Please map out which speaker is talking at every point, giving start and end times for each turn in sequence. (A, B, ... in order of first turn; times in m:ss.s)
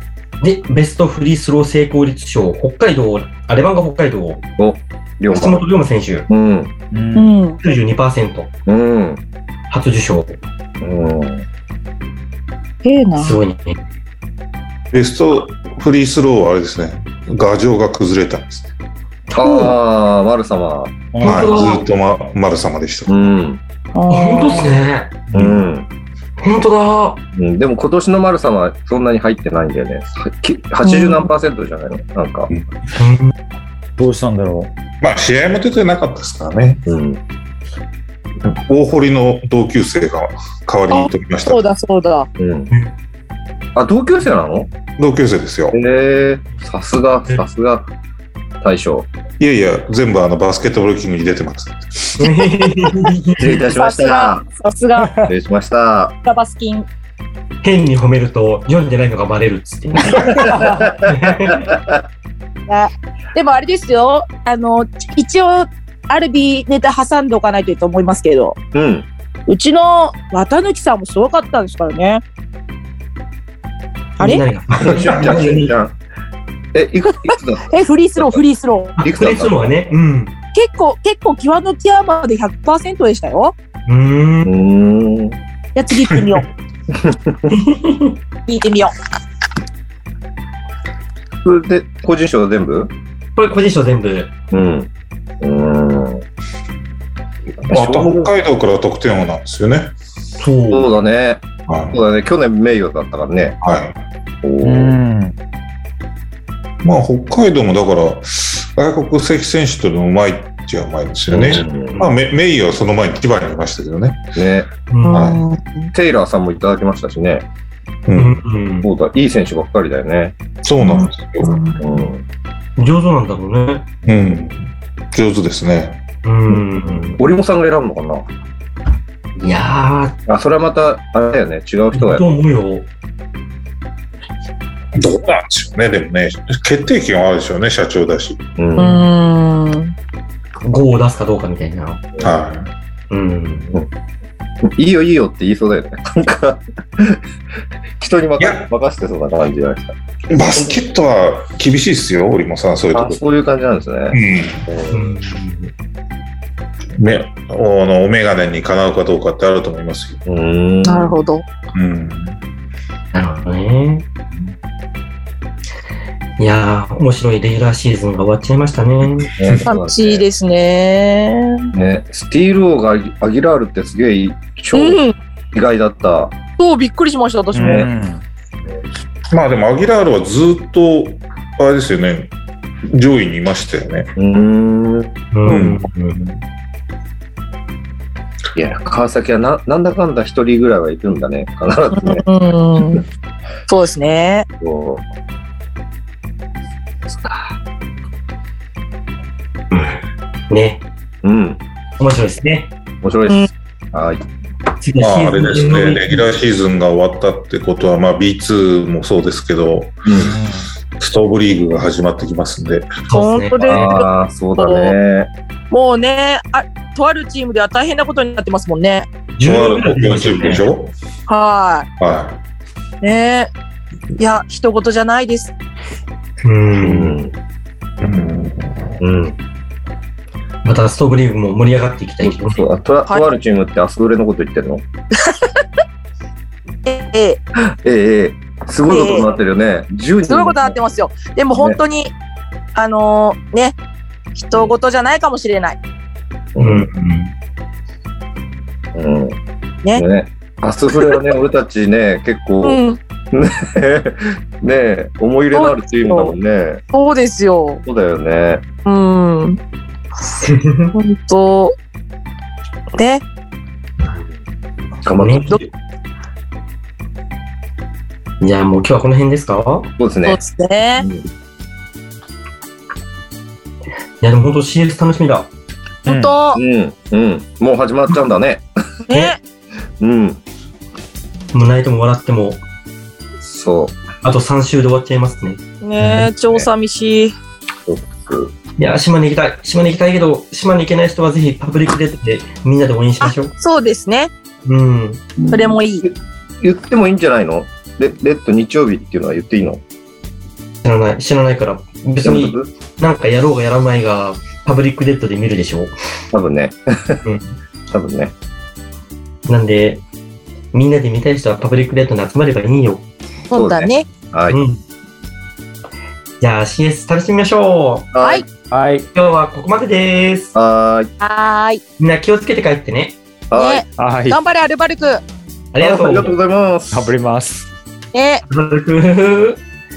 0:00.4-0:04.4 A
0:04.6-0:05.6 B
0:05.3-0:06.2 A
0:06.3-0:06.7 B
0:06.9-0:07.3 C
0:07.1-0:07.6 D
0:07.6-0:08.5 A
0:08.6-0:09.2 B
0:09.7-0:10.4 A
0:10.8-0:11.4 B
0:12.8-0:13.4 D
0:13.2-0:13.8 A
0:14.9-0:18.7 E
0:19.3-0:20.9 B
0:19.4-0:19.7 A
0:21.1-0:21.6 C
0:21.2-0:21.8 A
0:21.2-0:23.3 E
0:23.1-0:23.6 B
0:23.9-0:24.8 D
0:24.1-0:25.1 A
0:25.3-0:25.6 C
0:25.3-0:25.9 B
0:26.4-0:27.2 A
0:27.3-0:32.5 B
0:30.8-0:31.3 D
0:33.0-0:33.3 A
0:34.0-0:34.7 C
0:35.0-0:36.8 E
0:36.8-0:37.2 B
0:38.4-0:41.6 E
0:40.9-0:42.3 D
0:42.4-0:42.7 B
0:43.7-0:44.7 B
0:45.0-0:45.8 E
0:45.7-0:47.9 B
0:48.6-0:49.1 B
0:49.4-0:52.3 E
0:52.2-0:53.6 A
0:53.4-0:54.4 B
0:53.6-0:55.1 D
0:55.0-0:55.3 C
0:55.2-0:56.2 B
0:56.2-0:56.9 D
0:57.6-1:00.5 A
1:00.0-1:02.0 B
1:00.2-1:00.9 C
1:01.0-1:01.7 A
1:02.7-1:08.6 D
1:08.7-1:09.1 B
1:09.5-1:12.2 D
1:14.2-1:15.7 A
1:14.8-1:15.9 B
1:14.9-1:15.4 E
1:16.7-1:17.7 B
1:17.7-1:19.0 D
1:19.0-1:20.3 A
1:19.0-1:19.8 B
1:20.5-1:23.5 D
1:23.9-1:24.5 A
1:24.4-1:25.4 B
1:25.7-1:26.4 D
1:26.9-1:27.5 B
1:27.5-1:28.2 A
1:28.5-1:28.9 D
1:31.4-1:32.9 B
1:33.4-1:34.3 A
1:34.5-1:34.9 B
1:35.4-1:36.2 B
1:37.6-1:39.9 E
1:37.7-1:38.3 B
1:40.4-1:40.9 A
1:40.7-1:43.6 B
1:41.7-1:42.0 E
1:43.6-1:44.0 E
1:44.4-1:45.0 B
1:44.6-1:45.3 C
1:46.8-1:54.2 E
1:51.3-1:52.0 B
1:51.9-1:52.2 A
1:54.3-1:54.7 B
1:54.9-1:55.3 A
1:55.1-1:55.9 D
1:55.1-1:55.4 E
1:55.9-1:57.4 B
1:58.1-1:58.4 E
1:58.1-1:58.9 A
1:58.8-2:00.4 B
2:00.6-2:01.6 E
2:00.8-2:02.0 D
2:01.8-2:02.2 B
2:02.8-2:03.9 A
2:04.0-2:06.0 E
2:06.2-2:07.2 A
2:07.2-2:08.2 B
2:09.4-2:10.2 A
2:10.3-2:12.2 B
2:11.9-2:12.9 A
2:14.9-2:18.4 E
2:18.6-2:19.1 B
2:18.8-2:19.9 D
2:20.6-2:22.0 A
2:22.2-2:22.7 E
2:23.1-2:23.7 A
2:24.6-2:27.2 B
2:28.0-2:29.9 B
2:28.4-2:28.7 E
2:30.3-2:33.2 E
2:32.9-2:35.1 B
2:34.1-2:34.6 E
2:34.9-2:35.7 A
2:37.0-2:40.2 E
2:40.2-2:41.2 B
2:40.8-2:41.4 D
2:41.7-2:42.4 E
2:43.1-2:44.0 A
2:46.4-2:49.3 A
2:49.4-2:50.2 B
2:49.4-2:49.6 E
2:49.6-2:51.7 D
2:51.7-2:55.0 B
2:54.7-2:55.1 D
2:55.5-2:56.4 B
2:56.6-2:57.9 D
2:57.5-2:58.2 C
2:57.6-2:57.9 B
2:59.3-3:02.3 E
3:02.9-3:04.1 E
3:04.2-3:05.2 B
3:05.3-3:06.3 A
3:05.4-3:05.8 E
3:08.5-3:12.2 B
3:11.9-3:13.0 D
3:13.7-3:14.4 D
3:14.6-3:15.0 B
3:19.7-3:20.8 A
3:21.2-3:21.6 B
3:22.0-3:22.7 A
3:23.0-3:24.2 B
3:24.8-3:26.2 A
3:25.0-3:30.4 E
3:30.0-3:30.4 B
3:30.2-3:30.7 C
3:31.0-3:32.9 E
3:33.1-3:34.0 A
3:33.1-3:35.0 D
3:33.7-3:35.3 B
3:35.7-3:39.1 D
3:39.4-3:40.6 A
3:39.4-3:40.9 E
3:41.3-3:41.9 D
3:42.0-3:42.4 E
3:43.0-3:43.5 D
3:44.2-3:45.5 D
3:46.4-3:47.2 A
3:46.8-3:47.3 B
3:48.0-3:48.9 E
3:49.0-3:49.4 B
3:50.6-3:52.6 A
3:52.2-3:54.8 B
3:53.1-3:53.3 D
3:56.8-3:57.4 D
3:57.7-4:00.8 B
3:58.8-3:59.4 D
4:00.3-4:02.1 D
4:01.5-4:01.8 B
4:02.7-4:03.8 D
4:04.3-4:05.8 D
4:06.5-4:06.9 B
4:06.6-4:07.3 A
4:08.9-4:09.4 B
4:09.9-4:12.8 B
4:12.6-4:13.0 D
4:13.3-4:16.8 B
4:15.5-4:16.3 D
4:16.9-4:17.8 D
4:17.8-4:18.6 B
4:18.8-4:19.6 D
4:20.4-4:20.9 A
4:20.9-4:21.7 D
4:22.9-4:23.2 D
4:25.0-4:25.5 B
4:25.1-4:25.6 A
4:28.4-4:29.9 A
4:30.0-4:30.4 B
4:30.2-4:31.0 D
4:31.0-4:31.2 B
4:34.2-4:35.5 A
4:36.0-4:36.6 D
4:36.1-4:36.3 C
4:36.5-4:38.6 B
4:39.1-4:39.4 D
4:40.0-4:40.4 B
4:41.5-4:42.6 A
4:43.4-4:44.0 B
4:44.2-4:45.6 A
4:45.8-4:47.3 D
4:46.0-4:46.3 C
4:47.8-4:48.5 B
4:48.8-4:53.5 A
4:53.2-4:54.3 D
4:54.6-4:55.2 A
4:55.5-4:56.1 D
4:56.0-4:59.8 B
5:00.8-5:05.9 A
5:02.2-5:02.7 B
5:06.3-5:07.2 B
5:07.2-5:07.6 A
5:07.9-5:08.3 B
5:09.5-5:10.0 A
5:10.7-5:13.0 A
5:13.5-5:14.1 D
5:13.5-5:14.6 B
5:14.5-5:14.8 A
5:16.4-5:18.1 A
5:18.1-5:18.4 B
5:18.7-5:19.1 C
5:19.1-5:20.5 A
5:20.5-5:21.1 B
5:21.2-5:21.8 D
5:22.0-5:23.2 A
5:23.5-5:23.8 B
5:23.5-5:25.2 D
5:24.0-5:24.4 C
5:25.7-5:26.4 A
5:25.8-5:27.1 B
5:26.9-5:27.7 C
5:28.1-5:28.4 D
5:28.5-5:29.6 A